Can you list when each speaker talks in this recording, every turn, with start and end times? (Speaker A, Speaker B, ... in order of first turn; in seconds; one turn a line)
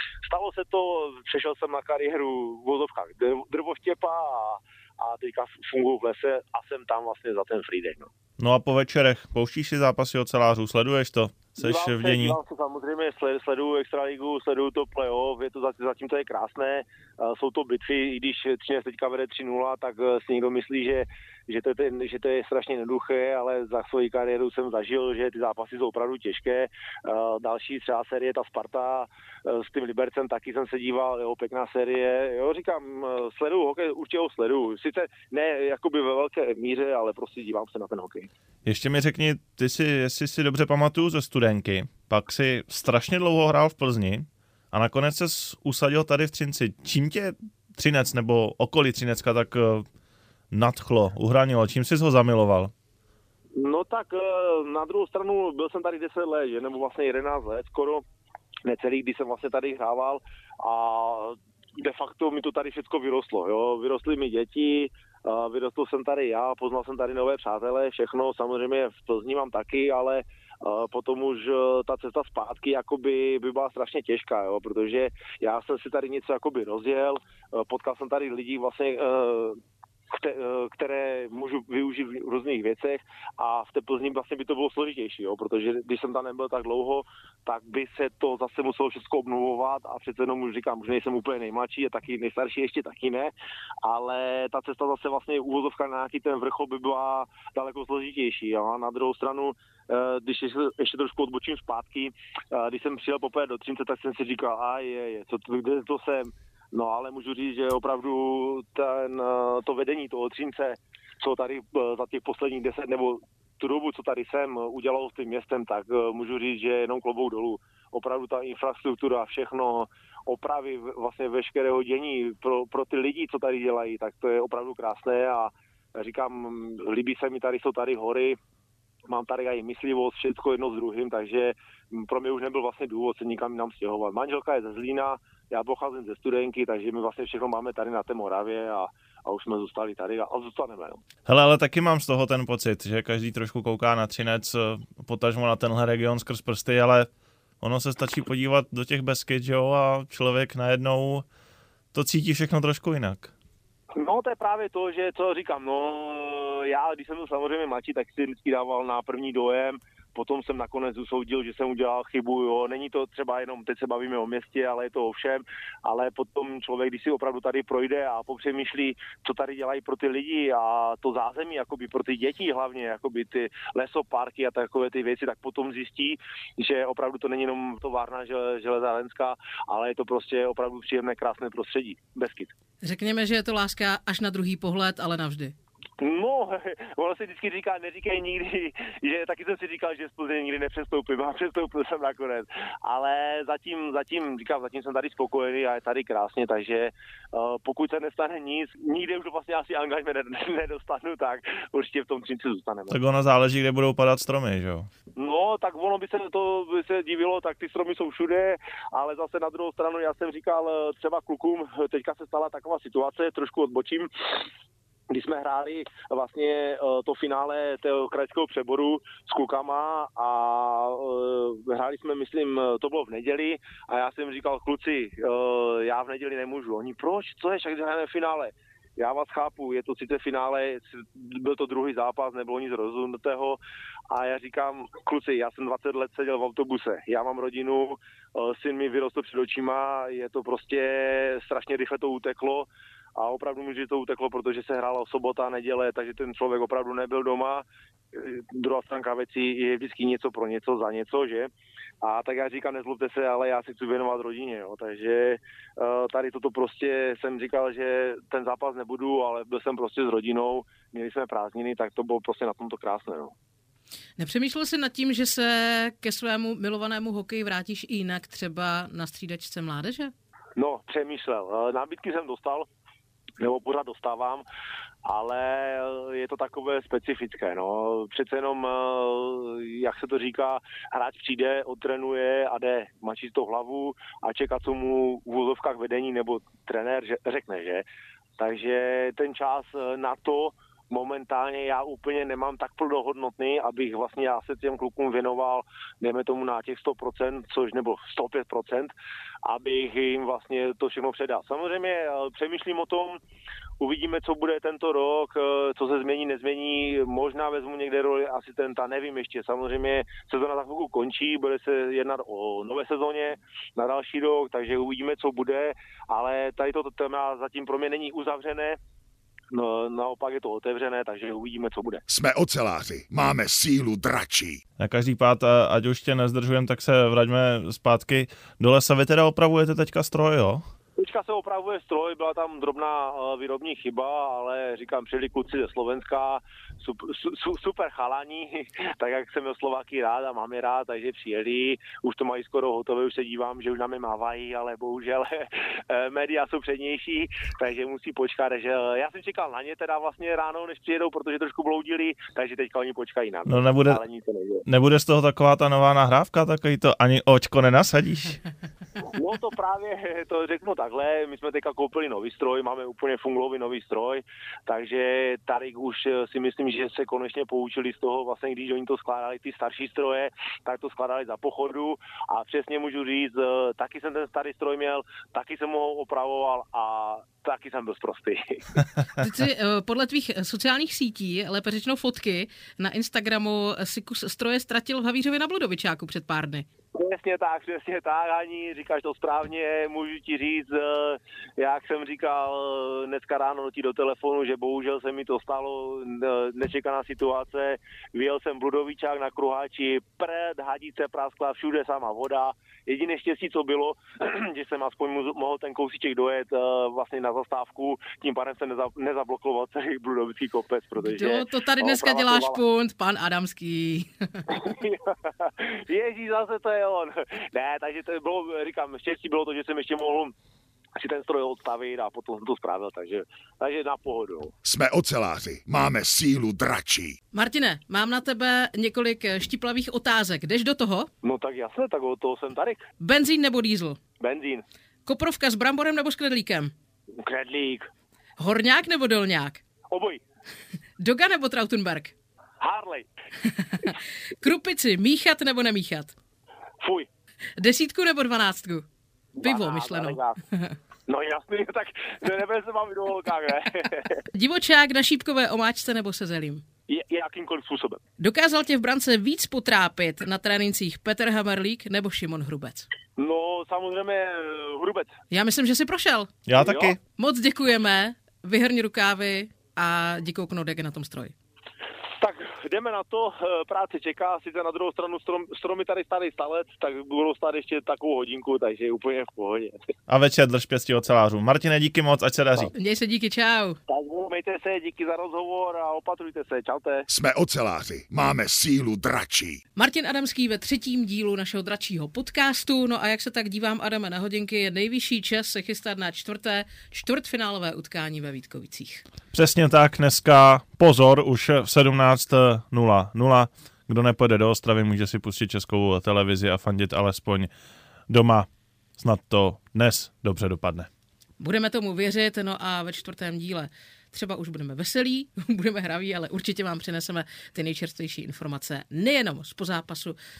Speaker A: 0.2-8.1
Speaker B: 8.4-12.4
Speaker A: 11.6-38.3
Speaker B: 38.6-49.9
Speaker B: 50.5-52.7
Speaker A: 53.6-58.0
Speaker A: 58.6-79.6
Speaker A: 80.1-128.4
Speaker A: 129.1-141.0
Speaker B: 141.2-147.1
Speaker B: 147.6-151.2
Speaker B: 151.9-153.3
Speaker A: 153.9-182.5
Speaker C: 182.8-185.5
Speaker A: 186.0-203.0
Speaker B: 202.9-204.9
Speaker A: 205.2-214.1
Speaker A: 215.1-263.4
Speaker C: 264.2-270.1
Speaker A: 270.6-272.7
Speaker A: 273.4-274.4
Speaker A: 275.0-287.9
Speaker A: 288.4-298.9
Speaker A: 299.4-303.2
Speaker A: 303.8-318.8
Speaker A: 319.5-322.0
Speaker D: 322.1-324.6
Speaker B: 324.8-330.6
Speaker A: 331.0-354.6
Speaker B: 353.4-354.0
Speaker B: 354.7-358.4
Speaker A: 359.1-378.8
Speaker C: 379.2-386.6
Speaker A: 386.9-412.6
Speaker C: 411.0-414.5
Speaker A: 414.5-420.3
Speaker A: 420.9-424.5
Speaker D: 424.6-427.1
Speaker C: 427.3-431.1
Speaker A: 431.2-432.8
Speaker C: 433.0-434.0
Speaker A: 434.2-434.6
Speaker C: 435.1-436.7
Speaker A: 437.2-437.9
Speaker C: 438.4-439.6
Speaker A: 439.9-440.2
Speaker C: 441.0-442.1
Speaker A: 442.6-443.1
Speaker C: 443.4-446.1
Speaker A: 446.8-447.1
Speaker C: 447.6-448.9
Speaker A: 449.4-450.4
Speaker C: 449.4-450.8
Speaker A: 451.1-454.2
Speaker C: 454.3-456.6
Speaker A: 456.9-458.0
Speaker C: 458.2-462.9
Speaker A: 463.2-465.1
Speaker C: 465.3-466.4
Speaker B: 466.5-467.0
Speaker A: 466.5-466.9
Speaker C: 467.2-471.3
Speaker A: 472.2-479.7
Speaker B: 480.1-482.7
Speaker C: 482.7-483.8
Speaker A: 483.9-487.1
Speaker D: 487.1-489.6
Speaker C: 489.8-499.0
Speaker B: 499.3-507.5
Speaker B: 508.1-510.9
Speaker C: 511.4-520.2